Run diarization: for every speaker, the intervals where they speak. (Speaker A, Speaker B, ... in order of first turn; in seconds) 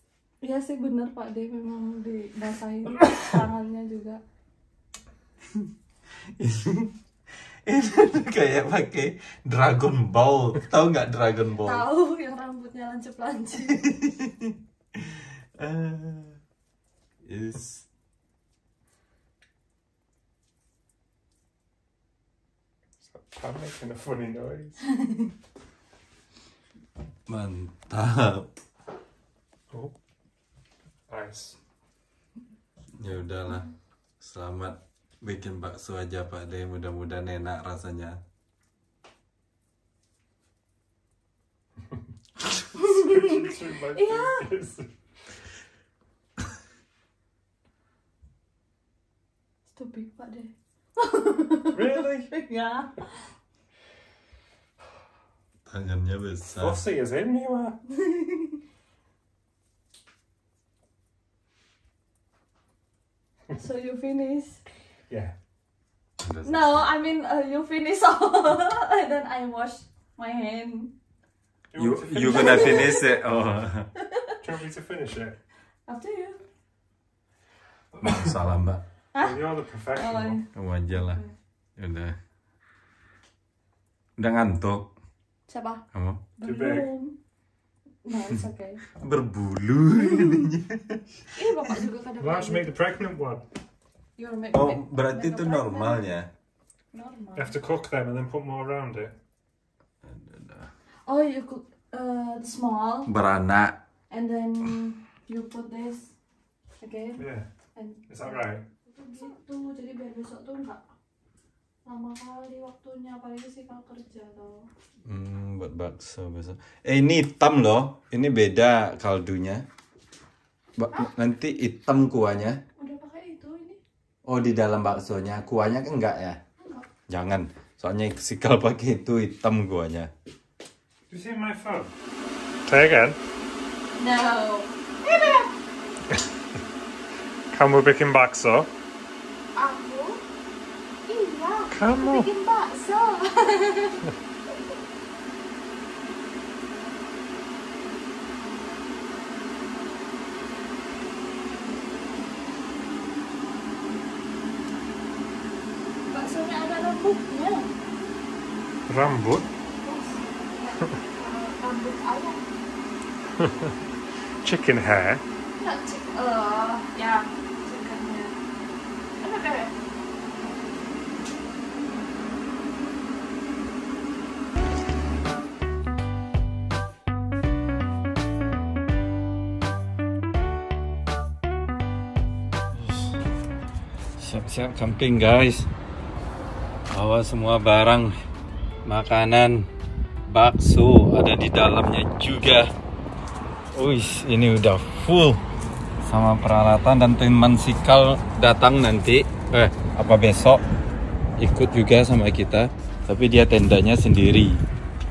Speaker A: 0.4-4.2, 11.6-13.9, 42.8-43.4, 43.9-44.5, 49.7-53.1, 57.9-58.6, 63.6-64.6, 66.5-70.9, 72.3-73.2, 74.0-74.4, 75.9-76.4, 80.0-81.3, 85.5-85.8, 86.4-87.2, 88.0-88.8, 90.1-90.4, 91.3-92.8, 94.2-96.0, 96.9-97.6, 101.1-103.1, 104.1-106.1, 106.8-107.2, 107.8-110.8, 111.8-114.7, 122.8-123.8, 126.6-126.8, 134.0-135.5, 139.6-140.2, 141.1-144.0, 156.1-157.7, 159.8-162.4, 165.6-168.4, 169.2-169.7
Speaker B: 6.4-6.9, 7.7-11.9, 13.7-16.4, 17.2-17.9, 27.3-28.5, 33.0-33.7, 34.2-38.2, 55.7-56.8, 66.2-66.9, 71.8-73.9, 78.0-78.8, 80.5-81.2, 81.8-82.2, 84.2-84.9, 85.9-86.2, 89.0-91.0, 94.5-96.3, 100.0-100.7, 103.1-103.8, 115.1-119.7, 120.8-122.6, 124.3-126.4, 127.1-130.1, 182.7-183.2, 184.2-185.7, 186.9-188.1, 188.9-189.7, 190.3-192.7, 193.7-195.4, 196.1-200.6, 201.4-204.6
Speaker C: 23.0-24.9, 31.1-31.6, 42.7-44.9, 51.7-52.3, 56.6-57.8, 65.1-65.3, 71.7-72.9, 74.4-75.4, 79.2-80.4, 86.4-86.9, 92.2-93.5, 97.4-99.1, 107.2-107.5, 108.1-108.6, 131.1-131.9, 132.7-133.2, 137.5-138.7, 141.7-142.3, 158.9-159.5, 163.4-163.8, 164.4-165.2